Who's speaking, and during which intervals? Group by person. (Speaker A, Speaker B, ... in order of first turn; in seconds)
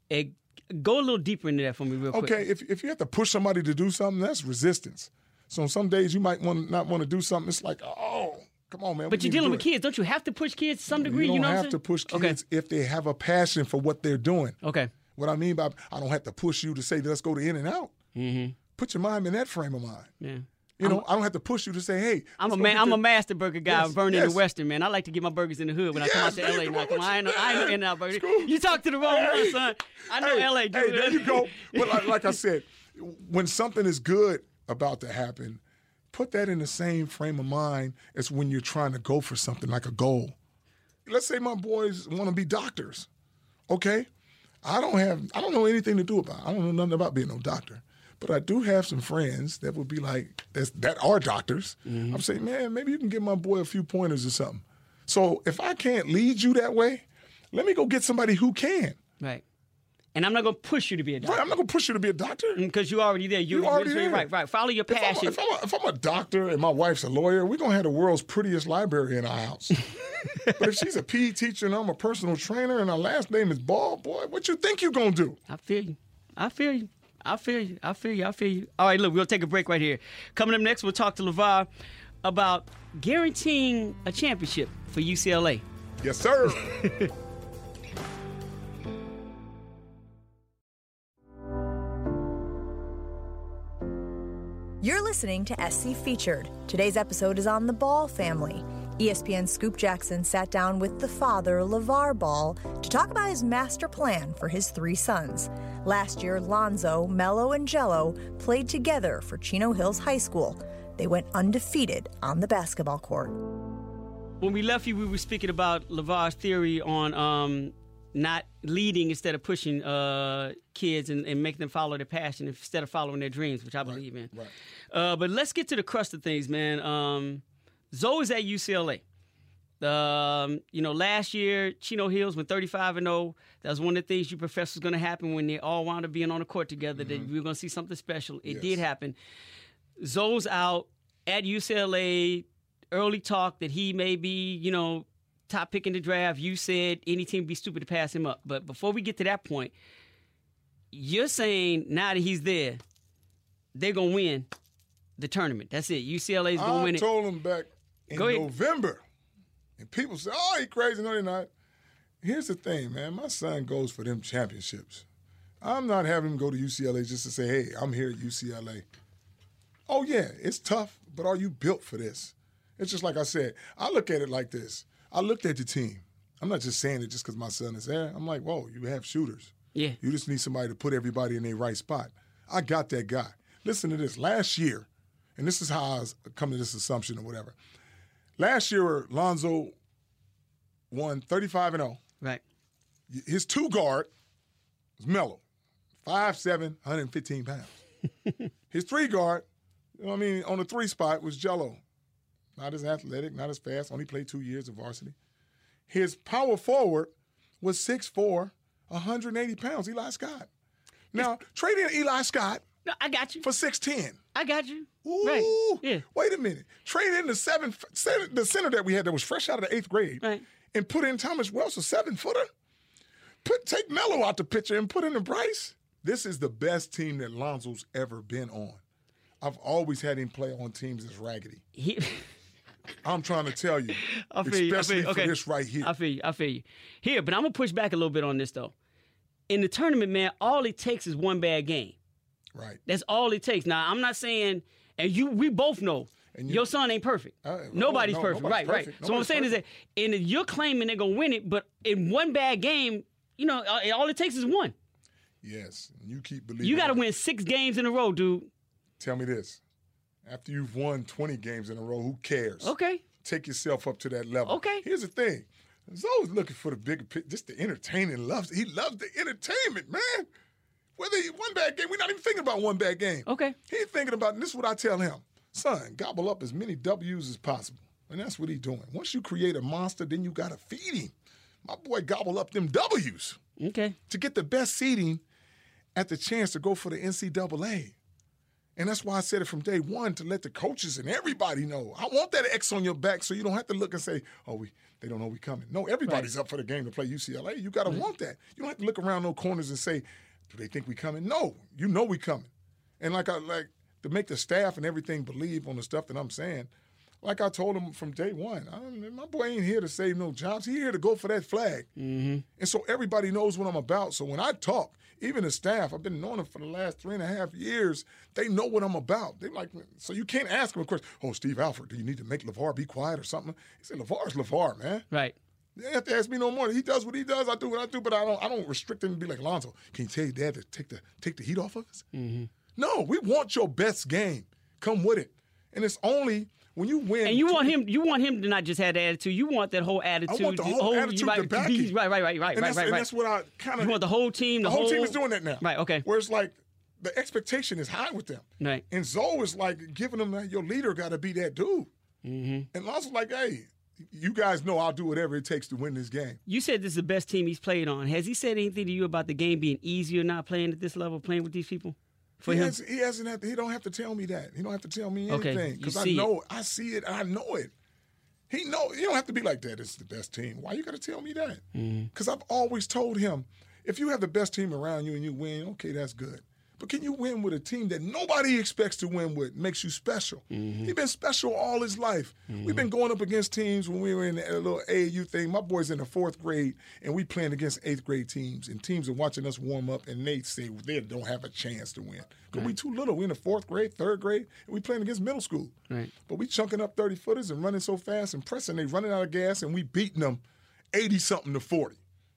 Speaker A: 0.1-2.4, 9.1-12.4, 14.6-14.9, 18.1-18.6, 20.2-21.0, 22.4-32.3, 51.9-52.2, 60.1-61.5, 62.6-65.4, 70.2-70.7, 75.5-81.7, 82.2-85.6, 86.5-87.1, 114.4-124.3, 124.9-129.0, 129.8-139.2, 140.0-149.7, 150.9-152.8, 153.8-154.5, 155.2-157.1, 158.1-158.5, 212.9-213.4, 214.3-216.1, 231.8-232.3, 234.0-238.7, 239.5-242.0, 242.9-254.7, 256.6-258.5, 262.6-263.0, 264.5-264.9, 273.3-273.6, 283.6-284.0, 312.0-312.4, 325.1-325.4, 332.1-332.5, 337.2-343.1, 343.8-346.1, 352.2-352.7, 356.5-362.8, 365.3-366.3, 371.8-372.1, 380.5-380.9, 382.5-382.9
Speaker B: 2.1-9.7, 10.9-14.6, 15.2-17.9, 18.8-20.1, 20.8-23.0, 23.7-24.4, 25.9-35.6, 36.1-40.4, 41.1-43.1, 43.7-44.1, 44.6-59.0, 61.2-62.6, 63.5-64.3, 64.9-69.8, 70.6-75.4, 86.0-86.9, 123.8-124.5, 137.0-137.3, 138.4-138.8, 156.6-159.0, 159.8-161.5, 162.2-165.1, 165.6-168.9, 169.9-187.6, 188.4-189.8, 190.9-192.0, 193.1-194.1, 195.0-195.4, 196.0-197.8, 198.7-199.4, 200.0-201.8, 202.6-205.2, 205.9-210.5, 211.1-212.6, 213.4-214.2, 215.0-222.5, 223.4-228.8, 229.4-231.6, 233.0-235.9, 242.6-242.8, 246.3-246.7, 247.4-249.6, 255.4-257.0, 259.0-259.6, 260.2-270.3, 271.0-281.1, 281.6-283.4, 284.1-285.2, 285.9-288.0, 288.8-306.7, 307.2-311.9, 312.6-325.1, 325.8-332.1, 332.8-337.8, 340.3-341.9, 342.5-344.0, 344.6-351.9, 352.7-356.4, 362.4-367.7, 368.5-371.6, 372.1-395.7, 396.3-402.0
Speaker C: 94.8-113.4